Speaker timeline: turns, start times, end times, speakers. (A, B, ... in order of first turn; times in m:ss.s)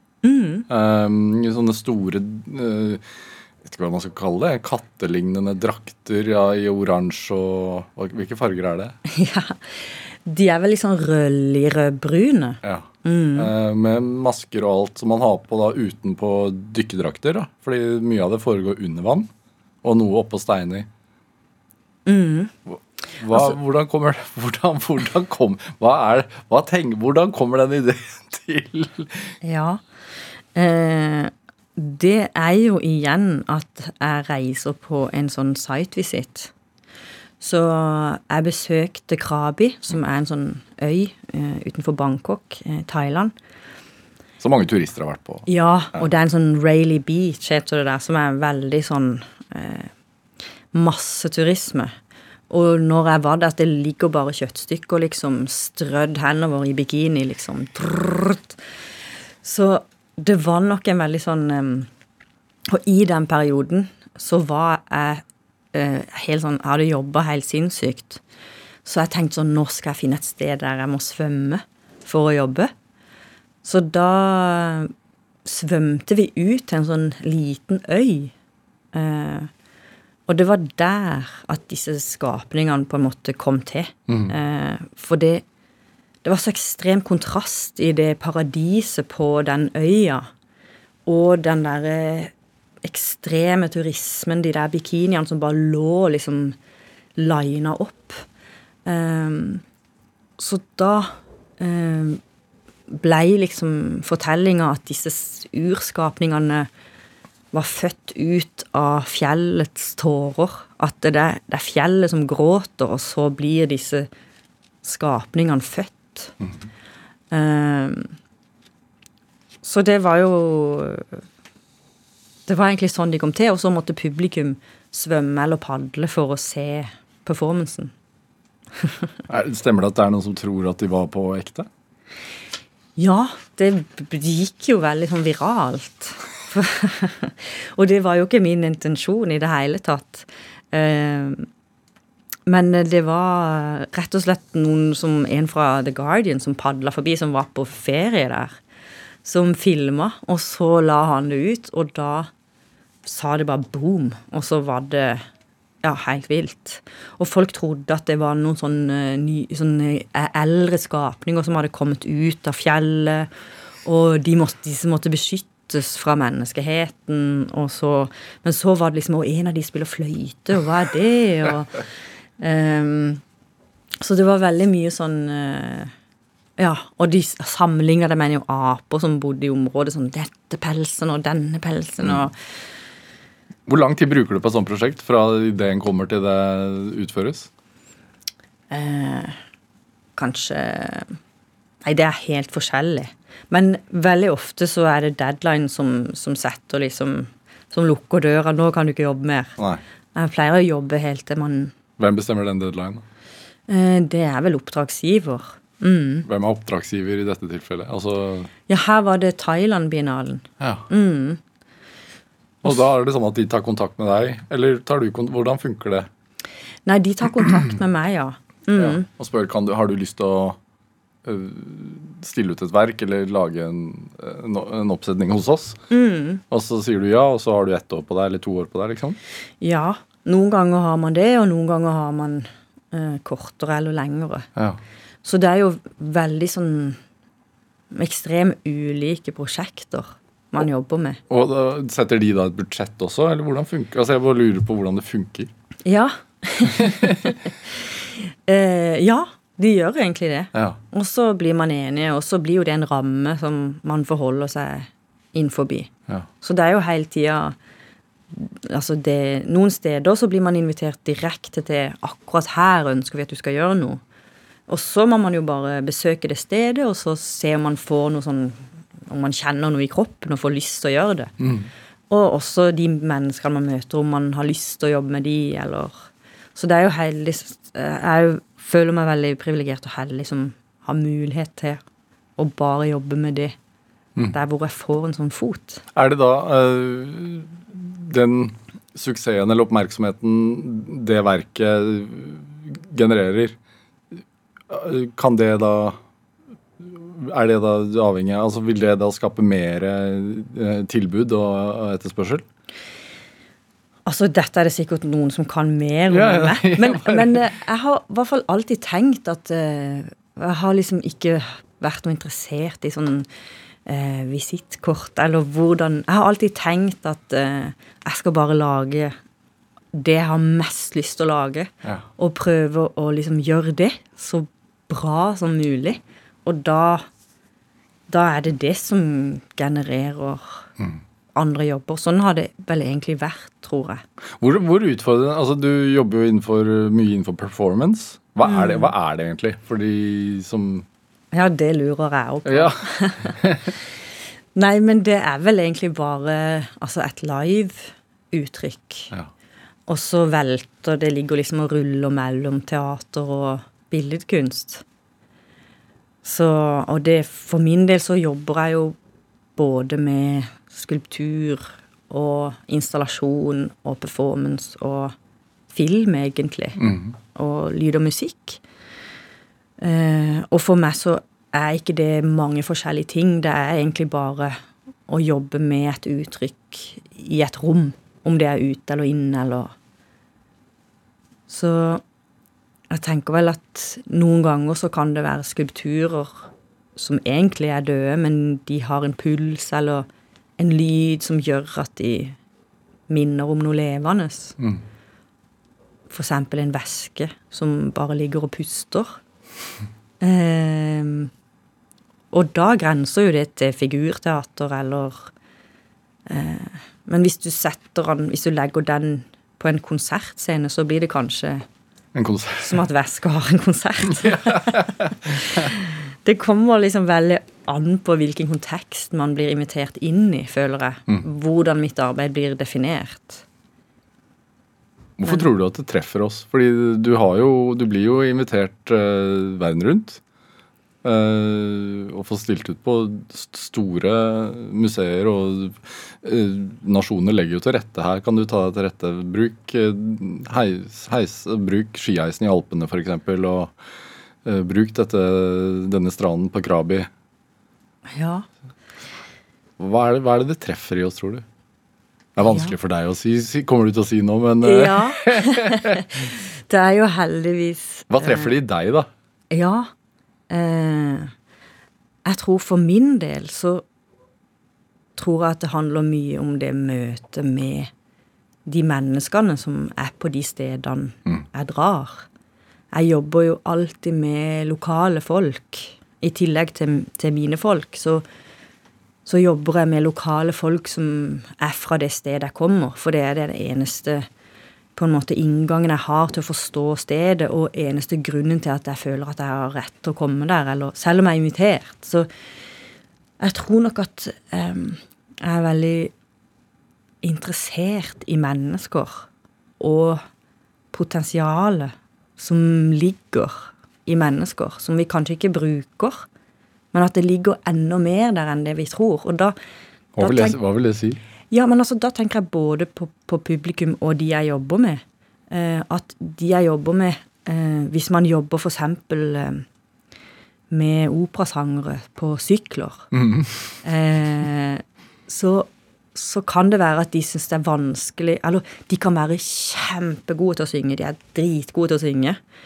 0:00.2-0:00.7 A
0:00.7-0:03.0 B
0:03.6-0:09.0 B
0:09.1-0:13.5 A
0:12.6-0:19.3 B
0:19.8-0:20.9 B
0:22.1-0:22.5 A
0:22.7-0:29.3 B
0:29.4-0:29.8 A
0:30.6-0:36.5 A
0:37.4-0:43.3 A
0:44.4-0:46.0 B
0:45.5-0:49.9 A
0:50.7-0:51.9 A
0:52.5-0:58.6 A
0:59.4-1:01.9 A
1:02.7-1:05.2 A
1:05.7-1:08.2 A
1:08.8-1:12.7 A
1:13.6-1:14.9 A
1:15.4-1:18.3 A
1:18.9-1:19.5 A
1:20.3-1:25.4 A
1:24.1-1:24.4 B
1:26.2-1:30.3 A
1:31.1-1:32.3 A
1:32.8-1:36.6 A
1:37.2-1:38.2 A
1:38.9-1:39.6 A
1:40.4-1:42.2 A
1:42.9-1:46.7 A
1:47.5-1:54.1 A
1:54.8-1:56.3 A
1:57.3-1:58.1 A
1:59.6-2:01.2 A
2:02.5-2:07.9 A
2:09.3-2:11.7 B
2:13.0-2:21.5 A
2:22.5-2:28.6 A
2:29.2-2:32.3 A
2:33.0-2:35.2 A
2:35.8-2:43.3 A
2:43.8-2:51.8 A
2:52.4-2:53.2 A
2:54.0-2:55.9 A
2:56.6-3:02.4 A
3:03.7-3:07.5 B
3:08.7-3:09.4 A
3:10.2-3:11.2 A
3:11.8-3:19.6 A
3:19.6-3:19.8 B
3:20.2-3:21.7 A
3:22.0-3:23.0 B
3:23.7-3:26.3 A
3:26.3-3:28.5 B
3:28.7-3:31.4 A
3:30.6-3:30.9 B
3:32.6-3:36.1 B
3:36.9-3:39.1 A
3:38.8-3:40.6 B
3:41.2-3:45.8 B
3:45.9-3:46.4 A
3:46.5-3:49.2 B
3:49.6-3:54.5 A
3:55.2-3:57.0 A
3:57.9-4:01.2 A
4:01.3-4:05.5 B
4:05.8-4:15.9 A
4:06.8-4:07.3 B
4:16.4-4:17.6 A
4:18.3-4:24.0 A
4:24.7-4:31.3 A
4:31.4-4:31.7 B
4:32.1-4:41.8 A
4:42.4-4:43.6 A
4:44.3-4:45.8 A
4:45.9-4:53.6 B
4:54.1-4:56.0 B
4:56.8-5:02.4 B
5:04.1-5:13.3 A
5:06.1-5:07.5 B
5:13.9-5:19.2 A
5:19.9-5:27.1 A
5:28.1-5:30.7 A
5:31.3-5:34.0 A
5:34.4-5:40.9 B
5:38.4-5:38.9 A
5:41.3-5:43.4 A
5:42.5-5:43.7 B
5:44.6-5:49.1 A
5:49.9-5:54.8 A
5:56.2-5:59.0 A
5:59.6-6:05.1 A
6:05.7-6:06.8 A
6:06.8-6:07.2 B
6:07.4-6:08.6 A
6:09.8-6:19.7 A
6:21.5-6:22.0 A
6:22.9-6:30.1 A
6:30.6-6:32.4 A
6:33.1-6:34.6 A
6:34.6-6:34.8 B
6:36.1-6:39.2 A
6:40.2-6:41.3 A
6:42.3-6:45.3 A
6:46.3-6:51.6 A
6:52.2-6:52.8 B
6:52.6-7:03.4 A
6:54.1-6:55.7 B
7:05.2-7:10.2 B
7:11.0-7:23.7 B
7:24.4-7:27.1 B
7:28.1-7:28.5 A
7:29.8-7:31.4 B
7:32.4-7:36.0 B
7:32.5-7:32.7 A
7:34.6-7:38.5 A
7:38.1-7:39.1 B
7:39.5-7:39.9 A
7:40.5-7:41.3 A
7:42.3-7:43.8 A
7:45.2-7:47.9 A
7:48.7-7:52.3 A
7:52.9-7:58.2 A
7:59.3-8:04.3 A
8:05.0-8:12.3 A
8:13.4-8:16.1 A
8:17.2-8:19.3 A
8:19.8-8:20.2 A
8:20.9-8:26.3 A
8:26.9-8:29.6 A
8:30.2-8:31.2 B
8:30.2-8:30.6 A
8:31.5-8:39.6 A
8:40.7-8:43.1 A
8:43.1-8:43.8 B
8:43.8-8:52.4 A